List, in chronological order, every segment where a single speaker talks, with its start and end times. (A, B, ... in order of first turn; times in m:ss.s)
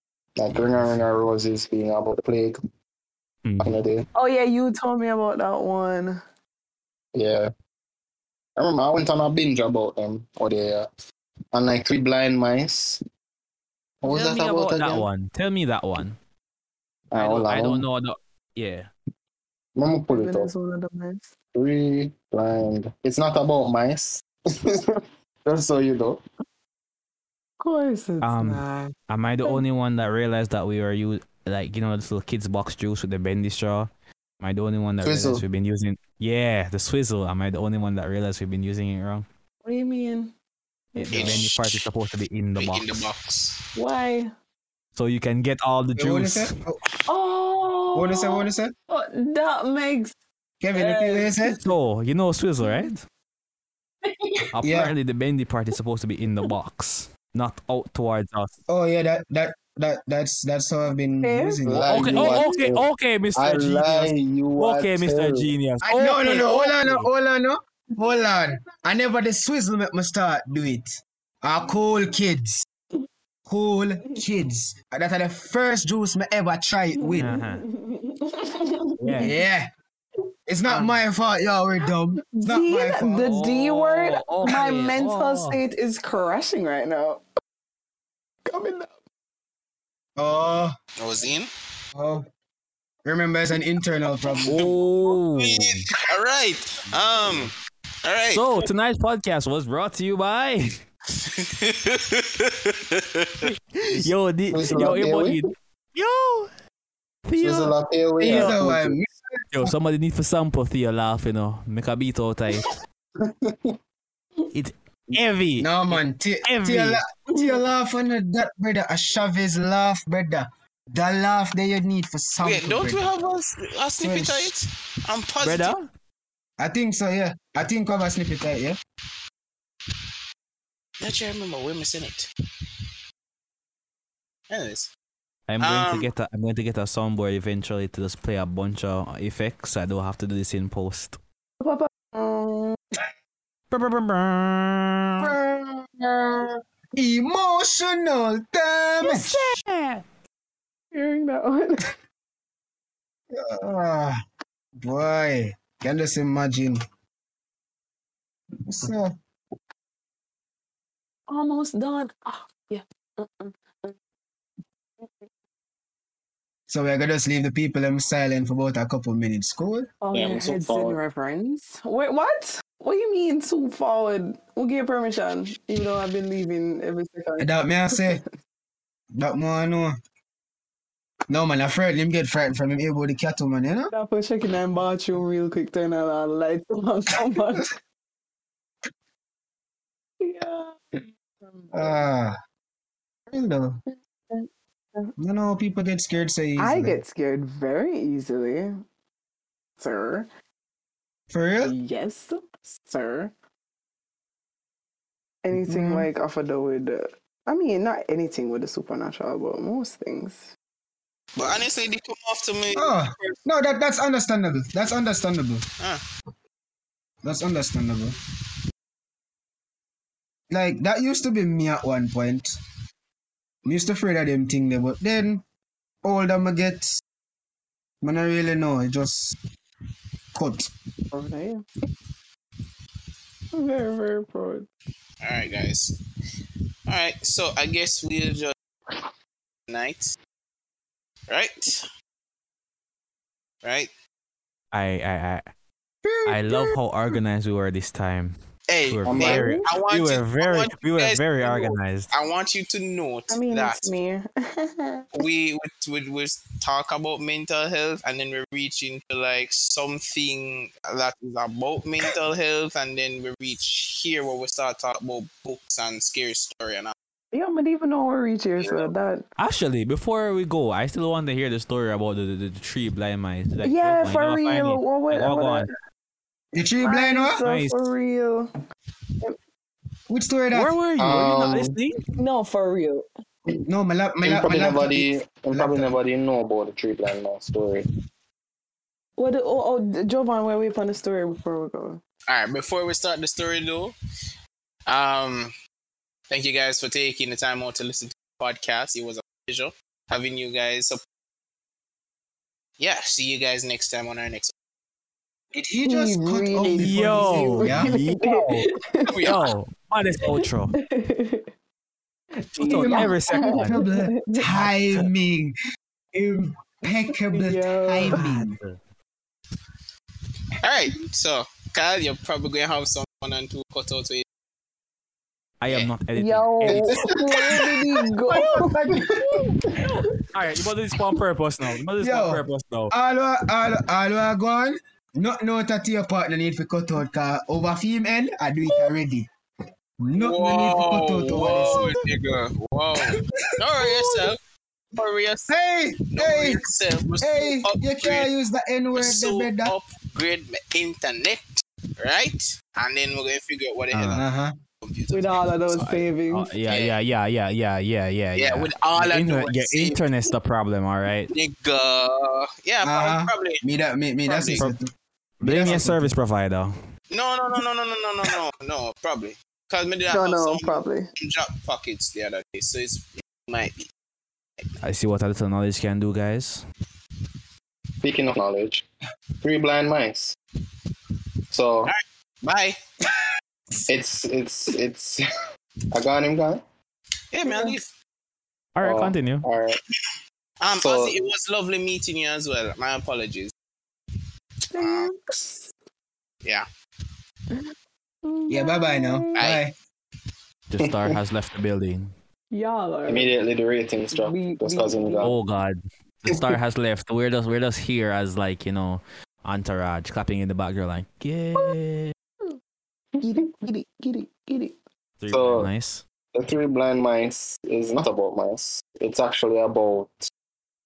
0:00.4-0:02.6 A
0:00.5-0:01.0 B
0:03.4-0:03.8 B
0:03.6-0:04.1 A
0:04.2-0:06.2 C
0:07.1-0:07.5 A
0:08.6-0:10.9 A
0:11.5-0:13.0 A
0:14.0-0:15.1 A
0:14.1-0:16.2 B
0:17.1-0:17.8 A
0:17.2-0:18.9 B
0:19.8-0:20.5 A
0:20.1-0:21.3 C
0:21.5-0:26.2 A
0:27.6-0:29.6 C
0:28.2-0:33.9 B
0:34.4-0:39.2 B
0:35.0-0:35.4 A
0:39.6-0:40.3 C
0:40.9-0:41.4 C
0:41.0-0:43.1 B
0:41.1-0:41.8 D
0:42.6-0:43.6 D
0:43.8-0:44.3 C
0:44.9-0:46.5 B
0:46.0-0:46.8 E
0:47.1-0:50.2 C
0:47.9-0:48.7 E
0:50.6-0:51.6 E
0:50.7-0:51.6 C
0:51.6-0:53.0 B
0:52.6-0:52.9 C
0:54.6-0:58.5 B
0:54.6-0:54.9 E
0:58.7-1:02.0 E
1:01.2-1:02.6 C
1:01.6-1:05.5 A
1:01.9-1:07.1 B
1:05.8-1:12.6 E
1:13.5-1:17.3 E
1:17.0-1:19.4 C
1:17.2-1:17.6 B
1:19.0-1:19.3 B
1:19.2-1:19.7 E
1:20.5-1:23.3 E
1:20.7-1:21.0 B
1:22.3-1:27.2 C
1:23.2-1:25.6 B
1:28.5-1:29.0 C
1:30.2-1:30.7 E
1:31.0-1:31.5 D
1:32.0-1:32.3 E
1:33.0-1:34.6 E
1:34.5-1:37.5 D
1:34.5-1:35.9 B
1:38.0-1:38.7 D
1:38.3-1:40.7 B
1:41.2-1:43.5 D
1:43.4-1:46.5 B
1:44.5-1:45.4 A
1:47.3-1:48.6 B
1:47.4-1:49.0 A
1:48.2-1:49.7 E
1:49.5-1:52.7 B
1:53.2-1:53.8 A
1:54.5-1:57.0 B
1:55.6-2:03.1 E
2:02.4-2:05.8 D
2:04.0-2:04.5 E
2:05.4-2:05.9 B
2:06.6-2:08.8 E
2:11.0-2:12.3 D
2:14.5-2:14.9 D
2:15.5-2:21.2 B
2:15.6-2:16.1 D
2:21.6-2:22.8 C
2:23.7-2:25.3 B
2:25.2-2:29.4 E
2:29.0-2:30.0 B
2:30.9-2:31.9 C
2:33.3-2:34.2 E
2:34.8-2:36.8 E
2:38.7-2:39.1 E
2:41.3-2:43.9 C
2:46.7-2:49.9 E
2:50.0-2:58.2 C
2:50.1-2:51.0 A
2:57.4-2:58.2 E
2:59.1-3:00.0 E
3:01.3-3:03.9 E
3:03.9-3:07.7 C
3:10.2-3:10.8 C
3:11.4-3:12.1 C
3:11.7-3:12.3 E
3:13.3-3:13.8 E
3:14.3-3:15.1 C
3:15.2-3:17.0 E
3:16.6-3:18.7 C
3:19.8-3:20.3 C
3:21.3-3:21.7 E
3:21.6-3:23.3 C
3:25.4-3:30.5 C
3:25.5-3:26.1 E
3:31.4-3:33.4 D
3:32.7-3:35.6 E
3:37.2-3:38.2 E
3:40.5-3:42.6 E
3:43.6-3:45.4 E
3:46.0-3:47.0 E
3:48.0-3:49.4 E
3:50.3-3:50.7 E
3:51.1-3:51.6 C
3:53.5-3:54.7 C
3:55.2-3:55.9 D
3:56.9-3:58.5 D
3:59.7-4:00.2 D
4:01.3-4:01.8 D
4:03.6-4:03.9 D
4:04.7-4:05.5 B
4:06.0-4:06.8 E
4:06.3-4:08.3 B
4:08.7-4:13.9 D
4:08.9-4:12.1 B
4:09.1-4:09.4 A
4:09.2-4:09.7 C
4:13.3-4:15.0 C
4:15.2-4:26.9 D
4:27.3-4:29.2 C
4:28.6-4:28.9 D
4:29.4-4:35.7 B
4:33.6-4:35.7 C
4:36.5-4:37.4 E
4:36.8-4:38.5 C
4:37.4-4:37.8 B
4:40.1-4:40.8 E
4:40.5-4:42.0 B
4:41.0-4:41.7 A
4:42.2-4:43.1 C
4:43.7-4:45.9 E
4:44.2-4:47.8 A
4:49.2-4:52.0 C
4:52.3-4:53.9 D
4:54.9-4:55.5 D
4:56.3-5:01.0 D
5:02.8-5:04.5 D
5:05.5-5:07.9 E
5:05.8-5:09.3 C
5:06.8-5:10.8 B
5:09.1-5:09.5 D
5:10.3-5:11.5 C
5:12.5-5:14.5 C
5:12.6-5:13.8 B
5:12.7-5:15.6 E
5:14.5-5:15.1 B
5:16.1-5:18.6 E
5:17.3-5:18.2 C
5:18.1-5:18.8 B
5:20.6-5:24.2 D
5:25.6-5:27.1 B
5:26.2-5:28.7 C
5:26.7-5:27.7 A
5:28.3-5:29.4 E
5:29.8-5:32.9 B
5:32.0-5:39.3 E
5:40.0-5:42.0 E
5:40.1-5:44.4 D
5:43.1-5:44.3 E
5:45.0-5:45.5 D
5:45.5-5:46.6 E
5:46.1-5:48.3 D
5:47.2-5:49.7 E
5:48.9-5:54.2 D
5:53.9-5:54.2 B
5:54.1-5:54.5 E
5:54.8-5:55.6 D
5:55.1-5:56.5 C
5:55.8-6:01.3 B
5:56.7-5:57.0 D
5:58.4-6:00.0 D
6:01.3-6:03.6 D
6:02.8-6:04.9 E
6:04.2-6:04.7 D
6:05.4-6:06.7 B
6:05.4-6:06.1 E
6:07.1-6:13.9 D
6:10.1-6:11.1 C
6:14.8-6:16.6 B
6:18.0-6:18.8 A
6:19.4-6:20.4 A
6:21.5-6:21.9 A
6:21.9-6:22.8 D
6:23.9-6:25.2 A
6:25.9-6:26.6 A
6:27.3-6:27.9 D
6:27.4-6:27.8 C
6:28.8-6:29.4 B
6:28.8-6:29.8 A
6:30.6-6:33.5 D
6:30.8-6:31.2 A
6:34.7-6:35.7 C
6:34.8-6:35.1 D
6:38.2-6:39.4 C
6:38.5-6:39.7 E
6:39.4-6:39.6 D
6:40.7-6:42.1 B
6:40.8-6:41.1 A
6:42.5-6:43.3 C
6:43.1-6:45.4 A
6:44.1-6:45.4 C
6:45.2-6:52.1 B
6:53.2-6:54.8 C
6:55.2-6:56.0 B
6:55.3-6:55.7 A
6:56.3-7:00.3 A